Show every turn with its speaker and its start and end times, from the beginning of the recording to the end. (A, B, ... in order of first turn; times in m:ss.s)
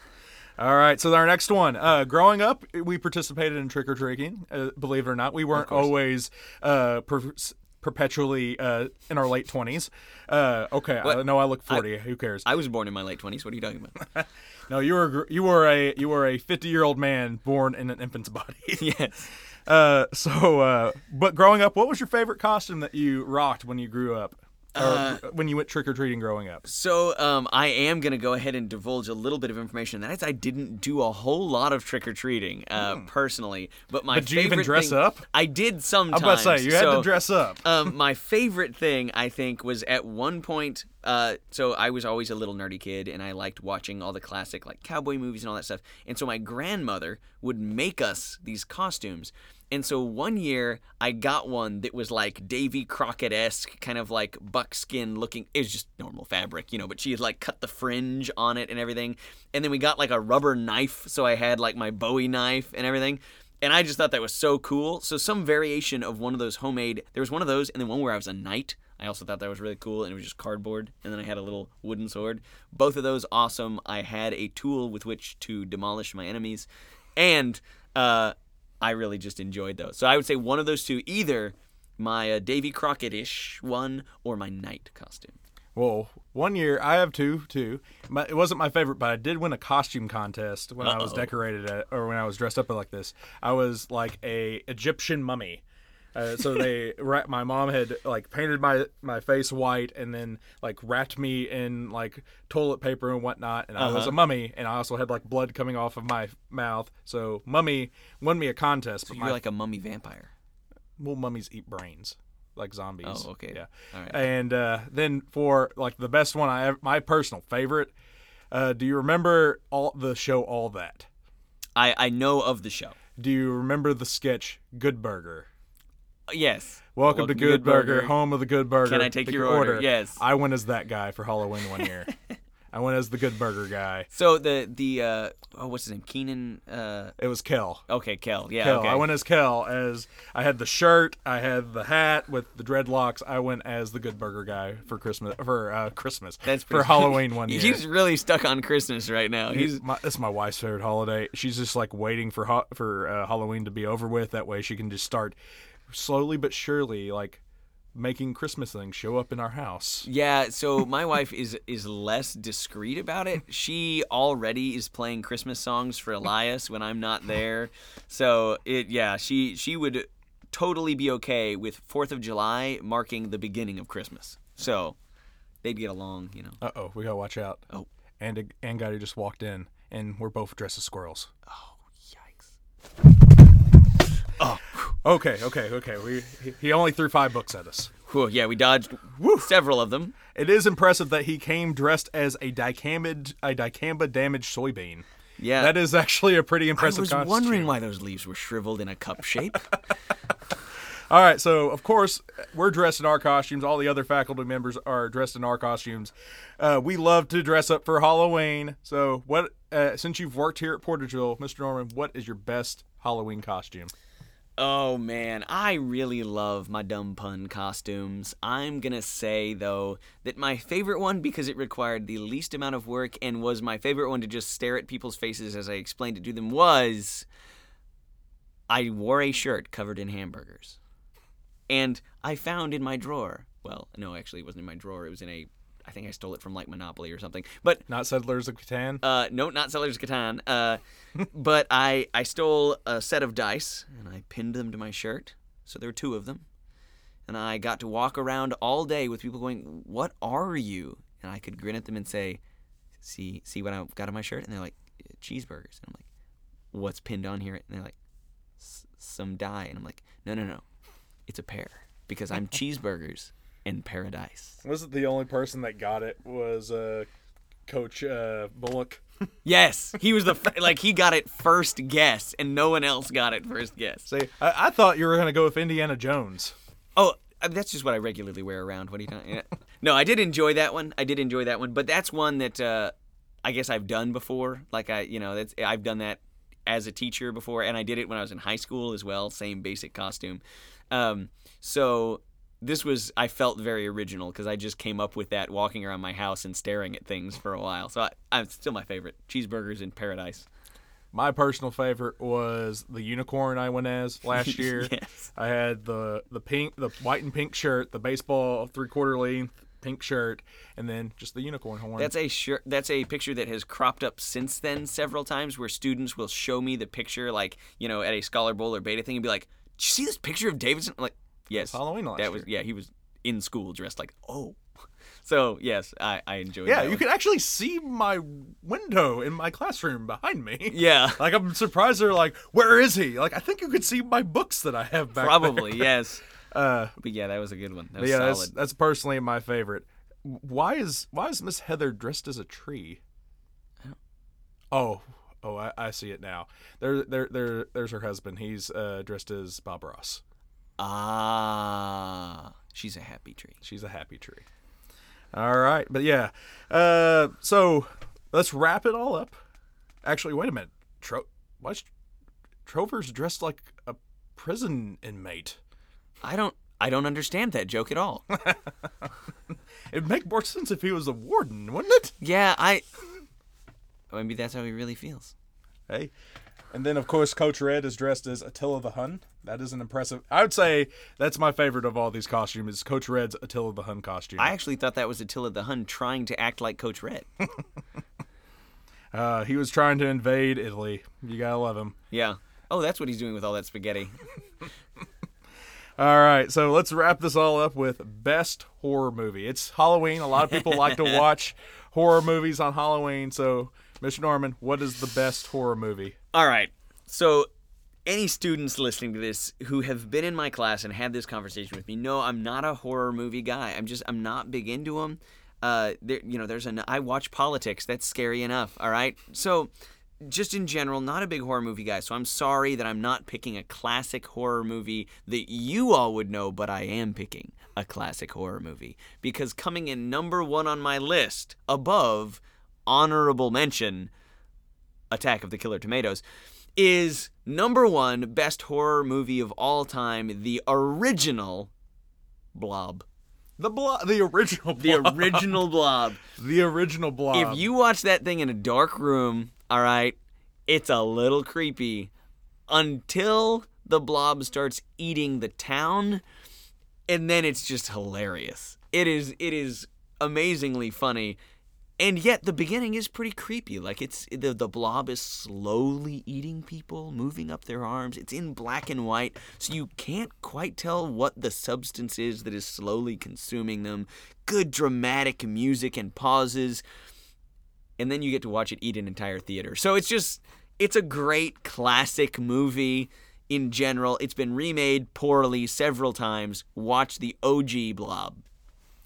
0:00.6-0:12.5 A
0:05.5-0:05.9 B
0:11.0-0:11.9 B
0:12.4-0:14.0 B
0:14.7-0:18.9 A
0:18.8-0:19.3 B
0:19.7-0:26.6 A
0:24.8-0:25.2 B
0:26.6-1:25.4 B
0:32.8-0:33.1 A
0:34.1-0:35.2 A
0:36.1-0:37.6 A
1:25.8-1:35.6 A
1:30.8-1:31.3 B
1:36.2-1:49.4 A
1:43.8-1:44.2 B
1:49.1-1:50.3 B
1:51.0-1:57.9 A
1:53.0-1:54.2 B
1:58.5-2:01.1 A
2:01.8-2:03.0 B
2:03.2-2:05.5 A
2:06.3-2:08.2 B
2:07.0-2:12.1 A
2:08.8-2:10.2 B
2:12.7-2:14.1 A
2:14.1-2:17.2 B
2:17.2-2:17.8 A
2:17.9-2:19.1 B
2:18.6-2:27.8 A
2:26.5-2:29.8 B
2:29.5-2:35.4 A
2:35.9-2:37.4 A
2:38.0-2:40.1 A
2:40.0-2:55.0 B
2:55.6-2:56.6 B
2:56.6-2:57.6 A
2:58.2-3:01.3 A
3:01.5-3:02.5 B
3:04.4-3:04.9 B
3:05.0-3:07.9 A
3:08.1-3:10.2 B
3:09.2-3:09.5 A
3:10.4-3:15.0 A
3:15.4-3:15.8 B
3:15.6-3:17.7 A
3:16.8-3:19.7 B
3:21.1-3:33.9 A
3:34.6-3:47.3 B
3:48.7-3:50.8 B
3:51.7-3:57.8 B
3:57.9-3:59.0 A
3:59.0-4:06.5 B
4:07.3-4:12.4 B
4:13.0-4:16.1 B
4:16.7-4:18.0 B
4:18.6-4:20.6 B
4:21.3-4:24.6 B
4:24.6-4:27.1 A
4:27.7-4:29.0 A
4:29.4-4:34.1 B
4:34.1-4:36.6 A
4:37.0-5:00.5 B
5:01.1-5:12.1 A
5:04.3-5:05.2 B
5:12.0-5:24.6 B
5:21.5-5:22.5 A
5:25.2-5:27.0 B
5:26.7-5:35.9 A
5:30.7-5:31.2 B
5:35.2-5:36.2 B
5:36.4-5:37.0 A
5:37.0-5:38.5 B
5:38.0-5:43.0 A
5:44.7-5:50.2 A
5:50.8-5:53.6 B
5:53.6-5:54.4 A
5:55.3-5:59.4 A
6:00.0-6:01.9 A
6:02.7-6:05.6 A
6:06.2-6:08.2 B
6:08.4-6:08.7 A
6:09.9-6:12.1 A
6:12.2-6:12.8 B
6:14.1-6:15.3 B
6:16.7-6:24.5 A
6:24.4-6:27.3 B
6:29.1-6:31.9 A
6:32.1-6:34.3 B
6:36.0-6:46.2 A
6:40.5-6:41.2 B
6:46.3-6:47.5 B
6:48.1-6:59.7 B
7:00.2-7:14.1 B
7:15.1-7:16.2 B
7:16.8-7:21.7 B
7:22.6-7:23.0 B
7:23.6-7:25.6 A
7:24.8-7:26.2 B
7:26.4-7:27.7 A
7:27.3-7:30.2 B
7:30.7-7:32.1 B
7:32.7-7:36.2 B
7:37.1-7:41.4 B
7:42.0-7:56.8 B
7:58.0-8:08.4 B